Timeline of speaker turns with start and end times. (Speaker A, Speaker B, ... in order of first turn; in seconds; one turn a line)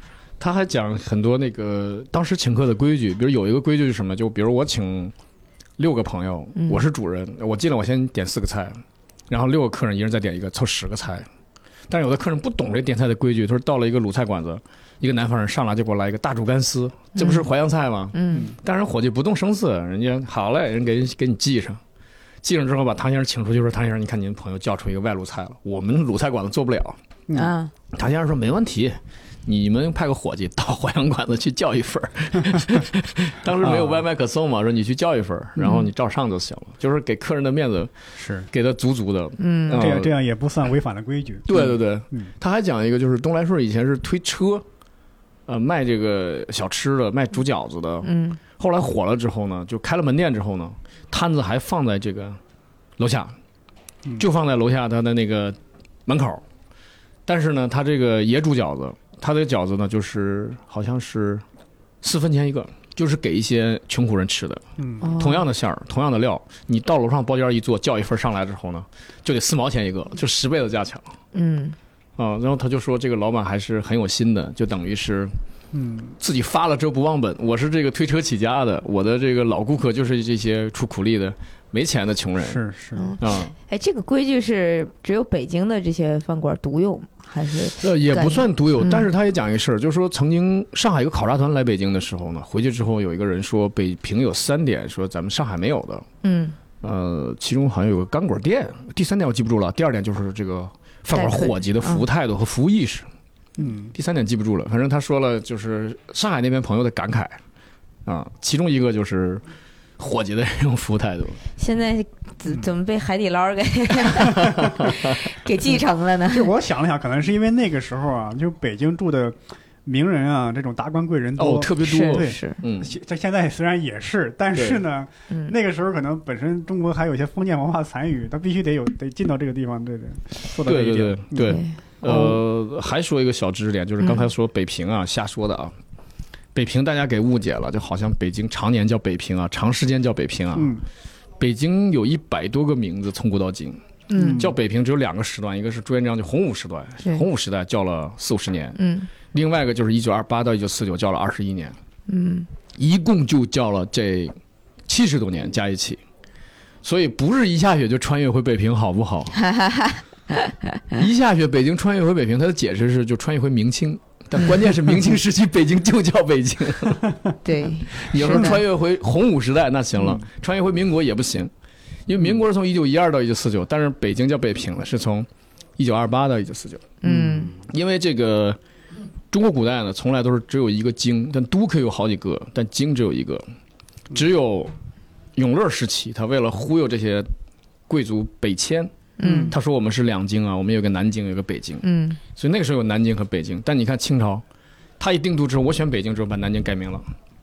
Speaker A: 0.4-5.1
Speaker A: 5.8-11.3
Speaker A: 11.9-21.8
Speaker B: 17.2-17.5
Speaker B: 18.1-18.5
Speaker A: 22.4-27.0
Speaker B: 27.3-27.7
Speaker A: 27.9-37.9
Speaker C: 33.6-34.0
Speaker C: 38.1-38.5
Speaker A: 38.5-40.1
Speaker B: 39.4-39.9
Speaker C: 39.7-42.3
Speaker A: 41.5-44.7
Speaker A: 45.5-52.4
Speaker B: 48.0-48.4
Speaker A: 53.0-53.4
Speaker A: 54.2-56.4
Speaker A: 57.3-61.4
Speaker A: 62.0-64.6
Speaker C: 64.8-65.1
Speaker B: 65.0-65.5
Speaker A: 65.2-71.1
Speaker B: 71.3-71.8
Speaker A: 72.2-75.3
Speaker C: 75.7-76.2
Speaker A: 76.2-82.6
Speaker C: 82.4-83.2
Speaker B: 83.0-89.1
Speaker A: 83.2-83.5
Speaker A: 87.8-96.1
Speaker B: 96.2-96.6
Speaker A: 96.8-103.1
Speaker B: 101.1-102.0
Speaker C: 103.6-103.9
Speaker A: 103.9-107.4
Speaker A: 108.1-109.4
Speaker A: 110.0-111.4
Speaker B: 111.6-116.5
Speaker C: 114.4-114.7
Speaker A: 114.6-115.2
Speaker C: 116.3-132.3
Speaker A: 121.4-122.9
Speaker B: 121.8-122.6
Speaker A: 124.5-124.8
Speaker A: 130.7-135.7
Speaker B: 131.4-131.8
Speaker B: 134.0-134.3
Speaker A: 136.6-140.7
Speaker C: 140.5-140.8
Speaker A: 141.4-143.8
Speaker B: 144.1-144.5
Speaker C: 144.1-144.5
Speaker A: 144.3-148.8
Speaker B: 148.8-149.1
Speaker A: 149.3-151.8
Speaker B: 152.1-152.5
Speaker A: 152.8-154.4
Speaker A: 154.9-156.0
Speaker A: 156.8-159.4
Speaker B: 159.4-161.0
Speaker A: 160.9-167.1
Speaker B: 167.4-168.6
Speaker A: 167.9-171.5
Speaker C: 170.0-170.2
Speaker A: 172.1-177.0
Speaker B: 177.0-177.5
Speaker C: 177.0-177.6
Speaker A: 177.7-178.6
Speaker A: 179.3-183.4
Speaker A: 184.1-184.7
Speaker A: 185.4-187.3
Speaker A: 187.9-191.8
Speaker B: 189.2-189.6
Speaker C: 189.2-189.6
Speaker B: 191.8-192.2
Speaker A: 192.4-194.4
Speaker A: 195.0-197.1